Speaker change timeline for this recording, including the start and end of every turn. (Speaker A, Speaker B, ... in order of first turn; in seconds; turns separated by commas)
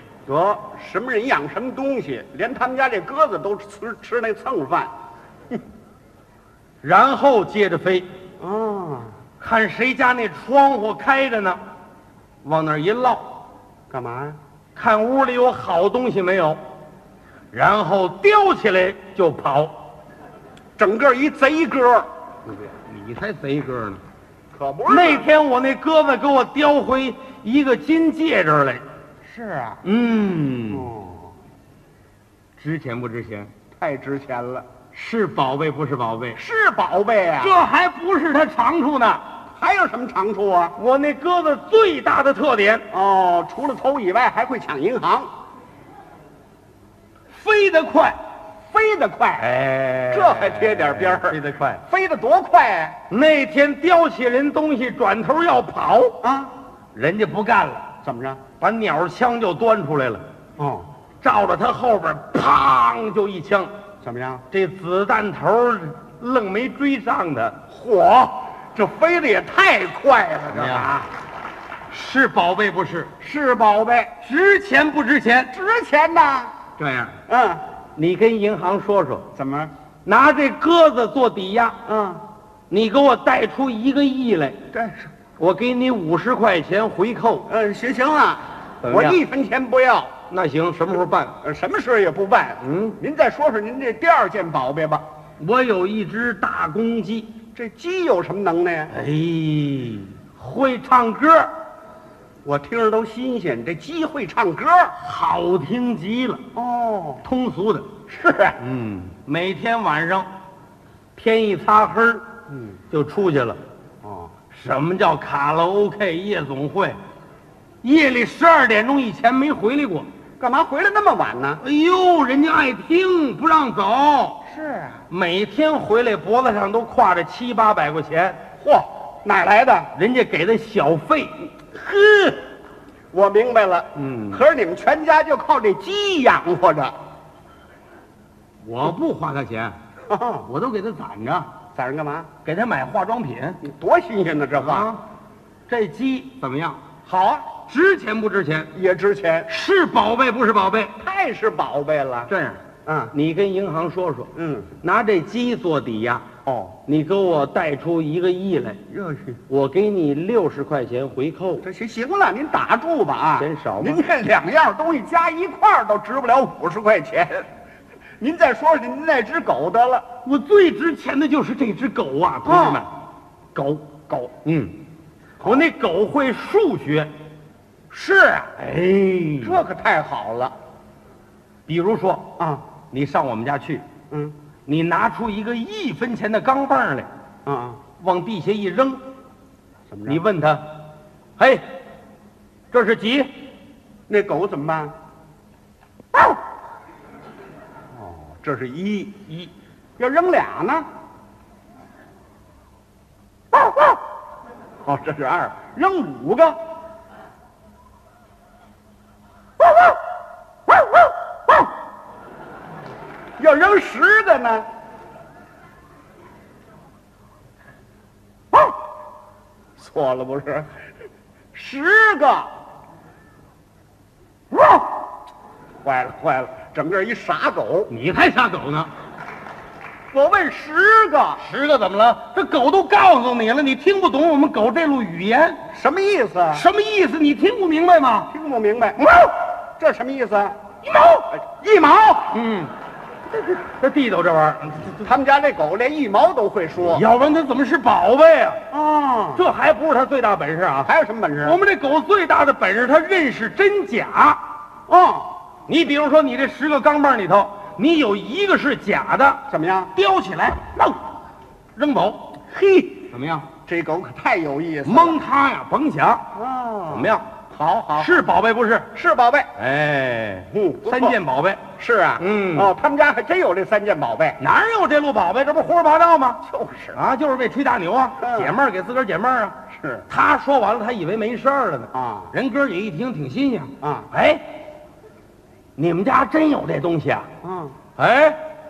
Speaker A: 0.3-4.9, Speaker B: 6.8-8.1, Speaker A: 8.4-9.1, Speaker B: 9.4-11.6, Speaker B: 12.4-13.3, Speaker A: 13.9-14.4, Speaker B: 14.8-16.6, Speaker B: 17.5-19.8, Speaker A: 20.8-22.6, Speaker B: 22.9-24.0, Speaker A: 24.5-25.3, Speaker B: 24.9-28.9, Speaker A: 29.2-29.8, Speaker B: 29.8-30.9, Speaker A: 30.7-31.3, Speaker B: 32.6-33.5, Speaker A: 33.8-34.7, Speaker B: 34.9-36.4, Speaker A: 36.4-37.5, Speaker B: 37.4-39.2, Speaker A: 39.6-40.8, Speaker B: 40.8-42.9, Speaker A: 42.9-45.3, Speaker B: 47.3-48.2, Speaker A: 48.7-49.5, Speaker B: 49.4-51.8, Speaker A: 50.1-53.0, Speaker B: 53.1-56.2, Speaker A: 56.2-56.5, Speaker B: 56.9-57.9, Speaker A: 58.0-58.4, Speaker B: 58.6-60.2, Speaker A: 60.6-60.9, Speaker B: 61.2-63.7, Speaker A: 64.0-64.5, Speaker B: 64.5-67.6, Speaker A: 67.7-71.1, Speaker B: 70.5-71.0, Speaker B: 71.9-73.1, Speaker A: 73.2-74.1, Speaker B: 74.2-75.5, Speaker A: 75.5-76.5, Speaker B: 76.8-77.2, Speaker A: 77.3-77.6, Speaker B: 78.0-79.2, Speaker A: 79.3-79.7, Speaker B: 80.1-81.8, Speaker A: 81.8-82.2, Speaker B: 82.7-84.6, Speaker A: 84.7-85.1, Speaker B: 85.4-87.5, Speaker A: 87.5-90.1, Speaker B: 88.8-89.2, Speaker B: 90.3-91.3, Speaker A: 91.4-95.0, Speaker B: 92.6-93.0, Speaker B: 95.4-97.3, Speaker A: 97.5-98.9, Speaker B: 98.9-101.5, Speaker A: 102.5-105.0, Speaker B: 105.0-106.4, Speaker A: 106.5-107.2, Speaker B: 107.2-107.9, Speaker A: 108.1-108.6, Speaker B: 108.6-110.3, Speaker B: 111.2-112.2, Speaker A: 112.5-112.8, Speaker B: 112.9-113.6, Speaker A: 114.0-114.3, Speaker B: 114.5-117.0, Speaker B: 117.8-120.1, Speaker A: 120.4-121.6, Speaker B: 121.6-124.4, Speaker A: 124.5-125.0, Speaker B: 125.1-128.4, Speaker A: 128.6-129.9, Speaker B: 129.9-132.4, Speaker A: 133.1-137.0, Speaker B: 134.0-134.4, Speaker B: 138.6-139.8, Speaker A: 140.1-140.5, Speaker B: 140.5-141.5, Speaker A: 141.7-142.3, Speaker B: 142.4-143.6, Speaker A: 143.6-144.9, Speaker B: 144.6-145.0, Speaker B: 145.7-148.7, Speaker A: 148.8-149.5, Speaker B: 149.5-150.9, Speaker A: 151.0-152.3, Speaker B: 152.3-152.6, Speaker A: 152.8-153.1, Speaker B: 153.1-154.3, Speaker A: 154.3-154.7, Speaker B: 154.8-156.3, Speaker A: 156.4-156.8, Speaker B: 156.8-158.8, Speaker A: 158.9-159.4, Speaker B: 159.5-161.7, Speaker A: 161.6-167.4, Speaker B: 163.4-164.0, Speaker A: 168.2-170.1, Speaker B: 170.2-172.9, Speaker A: 172.4-172.9, Speaker B: 173.5-173.9, Speaker B: 174.4-174.8, Speaker A: 175.4-175.7, Speaker B: 175.4-177.1, Speaker B: 178.0-179.6, Speaker A: 179.4-180.6, Speaker B: 181.7-182.3, Speaker A: 182.4-182.6, Speaker B: 182.9-183.8, Speaker B: 184.7-187.1, Speaker A: 187.5-187.8, Speaker B: 188.0-189.0, Speaker A: 189.9-190.2, Speaker B: 190.1-190.7, Speaker B: 191.4-191.7, Speaker B: 192.7-193.3, Speaker A: 194.1-194.9, Speaker A: 197.9-199.1, Speaker A: 200.0-200.9, Speaker A: 203.5-203.9, Speaker A: 204.8-206.6, Speaker A: 213.4-214.7, Speaker A: 219.8-220.7, Speaker A: 221.5-222.5, Speaker A: 225.8-227.9, Speaker B: 227.9-228.9, Speaker A: 230.1-231.4, Speaker B: 231.4-235.6, Speaker A: 235.7-236.7, Speaker B: 236.5-238.3, Speaker A: 238.3-239.1, Speaker B: 239.0-239.4, Speaker A: 239.8-240.6, Speaker B: 240.8-241.3, Speaker A: 241.3-242.4, Speaker B: 242.3-242.7, Speaker B: 243.3-245.1, Speaker A: 245.0-247.0, Speaker B: 246.8-248.6, Speaker A: 248.7-249.5, Speaker B: 249.4-250.9, Speaker A: 250.8-251.6, Speaker B: 251.4-254.4, Speaker A: 254.9-255.3, Speaker B: 255.7-259.4, Speaker A: 259.5-259.9, Speaker B: 259.9-261.0, Speaker B: 261.8-262.3, Speaker A: 262.5-263.1, Speaker B: 263.1-263.5, Speaker A: 263.6-265.2, Speaker B: 264.9-266.3, Speaker A: 266.3-268.3, Speaker B: 266.9-267.2, Speaker B: 268.0-268.9, Speaker A: 268.9-269.5, Speaker B: 269.6-271.6, Speaker A: 270.5-271.2, Speaker A: 271.8-274.4, Speaker B: 272.2-272.7, Speaker B: 274.4-276.4, Speaker A: 276.4-277.0, Speaker B: 276.9-279.6, Speaker A: 278.2-278.6, Speaker A: 279.7-280.1, Speaker B: 280.1-284.4, Speaker A: 281.9-282.3, Speaker A: 283.8-284.1, Speaker B: 285.8-287.3, Speaker A: 287.4-287.8, Speaker B: 288.0-288.4